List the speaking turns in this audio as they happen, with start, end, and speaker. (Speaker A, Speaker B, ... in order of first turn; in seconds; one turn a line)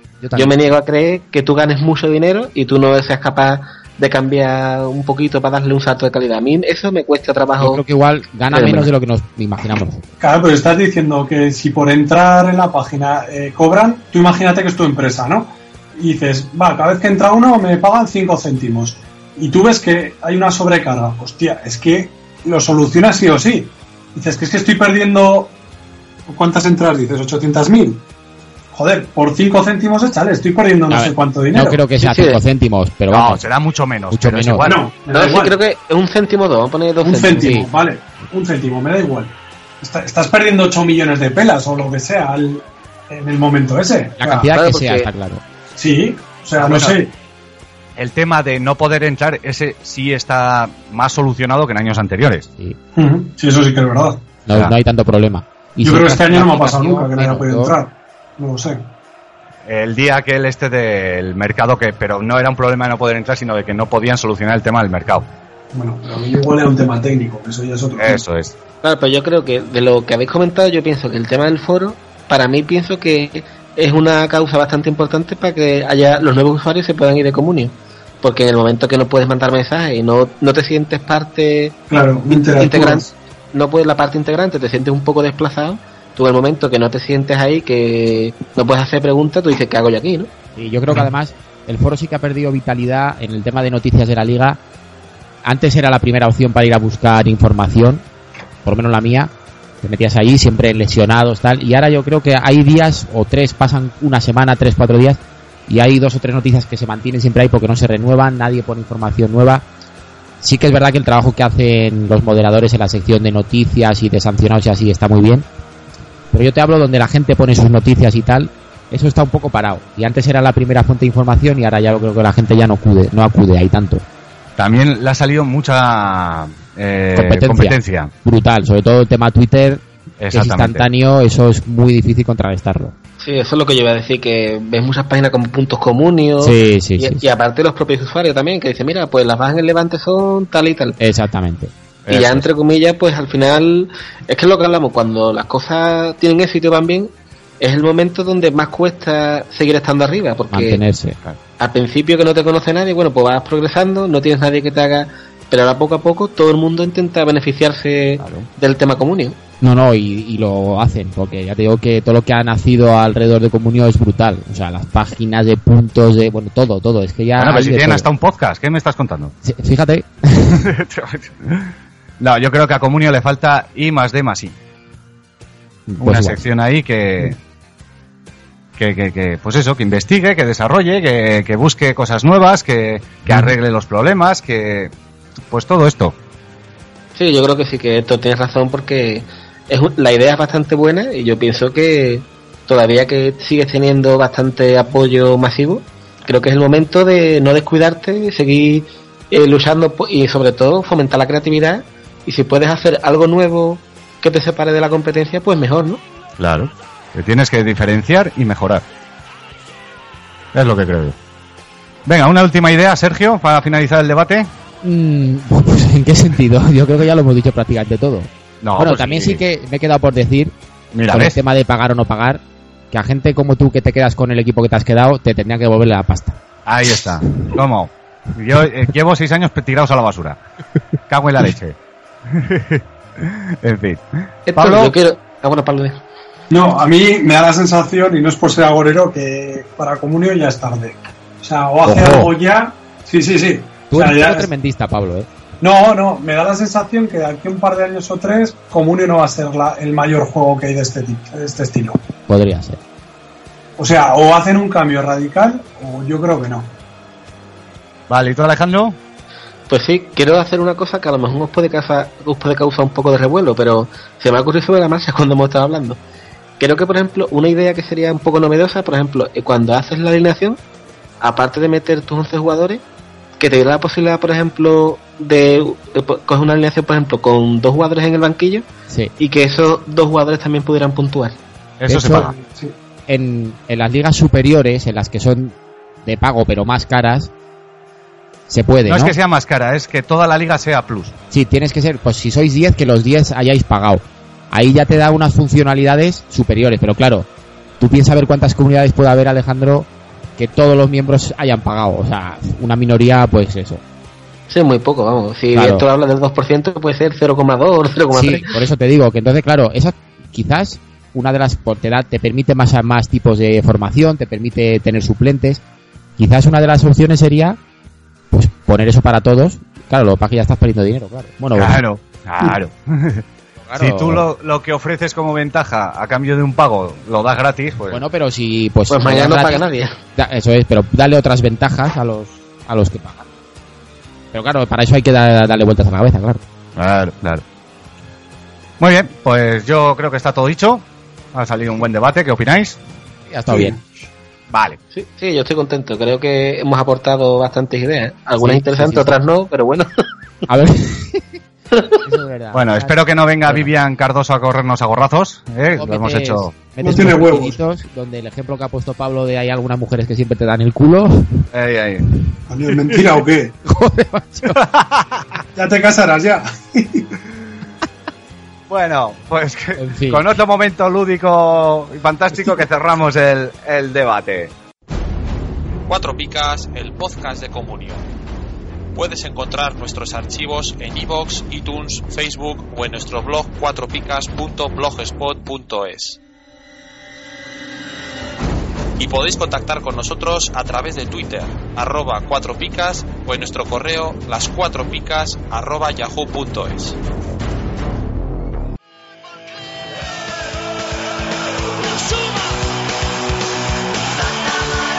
Speaker A: 0.2-0.6
Speaker B: 0.3-7.8
Speaker A: 7.6-10.0
Speaker B: 8.5-8.9
Speaker C: 10.2-25.5
Speaker C: 26.3-28.0
Speaker C: 28.7-31.8
Speaker A: 30.9-33.5
Speaker B: 32.0-32.4
Speaker D: 33.1-34.8
Speaker A: 34.1-34.7
Speaker C: 34.6-35.6
Speaker B: 35.1-37.6
Speaker C: 37.0-44.5
Speaker A: 37.4-37.6
Speaker A: 44.2-45.4
Speaker B: 44.5-45.1
Speaker C: 45.8-47.1
Speaker D: 46.5-47.0
Speaker D: 48.0-52.5
Speaker C: 52.9-54.2
Speaker A: 54.5-57.7
Speaker C: 55.8-58.8
Speaker D: 59.6-65.3
Speaker C: 65.7-68.2
Speaker D: 68.0-68.5
Speaker B: 68.8-81.8
Speaker C: 81.9-83.1
Speaker B: 82.3-90.3
Speaker A: 90.5-94.6
Speaker A: 95.4-98.0
Speaker A: 98.6-99.3
Speaker A: 99.8-109.6
Speaker A: 110.4-115.5
Speaker A: 116.3-124.0
Speaker D: 124.6-128.1
Speaker A: 127.2-132.9
Speaker D: 130.2-130.8
Speaker B: 133.2-141.0
Speaker A: 136.4-137.3
Speaker A: 141.0-141.7
Speaker D: 142.1-142.5
Speaker B: 142.1-150.8
Speaker A: 150.5-151.2
Speaker B: 151.6-159.4
Speaker D: 158.2-158.5
Speaker A: 159.6-168.1
Speaker D: 167.3-169.3
Speaker A: 169.4-170.7
Speaker D: 170.5-174.6
Speaker A: 175.9-176.4
Speaker D: 176.0-177.4
Speaker D: 178.8-184.9
Speaker D: 185.5-186.2
Speaker B: 187.1-206.0
Speaker D: 206.4-208.8
Speaker D: 210.5-211.2
Speaker D: 212.1-214.5
Speaker A: 214.8-220.5
Speaker D: 218.6-219.4
Speaker D: 220.9-221.4
Speaker A: 221.1-226.4
Speaker D: 226.7-230.4
Speaker D: 231.1-231.8
Speaker D: 232.3-234.9
Speaker B: 234.5-236.0
Speaker C: 236.5-244.5
Speaker A: 241.8-242.3
Speaker A: 243.9-245.3
Speaker C: 245.6-252.0
Speaker A: 252.3-252.8
Speaker C: 253.8-256.7
Speaker D: 258.1-259.0
Speaker B: 259.7-266.0
Speaker B: 266.6-270.6
Speaker B: 271.2-272.8
Speaker B: 273.4-278.6
Speaker B: 279.2-281.4
Speaker D: 281.8-282.3
Speaker A: 281.9-282.3
Speaker C: 282.1-282.7
Speaker A: 283.1-287.3
Speaker A: 288.5-289.1
Speaker D: 288.9-291.1
Speaker A: 291.3-297.3
Speaker A: 297.8-303.8
Speaker B: 304.5-308.5
Speaker A: 305.5-305.8
Speaker A: 308.1-315.6
Speaker A: 316.2-317.6
Speaker A: 318.3-321.8
Speaker D: 321.5-323.2
Speaker A: 323.6-324.2
Speaker D: 323.8-328.0
Speaker A: 327.9-329.6
Speaker B: 328.9-329.9
Speaker A: 330.1-333.2
Speaker A: 334.3-336.4
Speaker D: 336.8-337.4
Speaker D: 338.8-342.8
Speaker A: 343.3-343.8
Speaker C: 343.5-343.8
Speaker D: 344.5-344.8
Speaker B: 344.9-350.0
Speaker A: 348.4-349.2
Speaker A: 350.5-351.4
Speaker A: 352.0-353.7
Speaker D: 352.5-356.5
Speaker A: 355.7-361.4
Speaker C: 356.8-357.6
Speaker D: 361.5-362.0
Speaker C: 362.5-363.5
Speaker A: 363.6-364.6
Speaker D: 364.5-365.2
Speaker C: 365.5-367.1
Speaker D: 368.7-374.5
Speaker A: 369.8-370.2
Speaker E: 375.9-378.0
Speaker E: 378.9-386.2
Speaker E: 389.0-397.0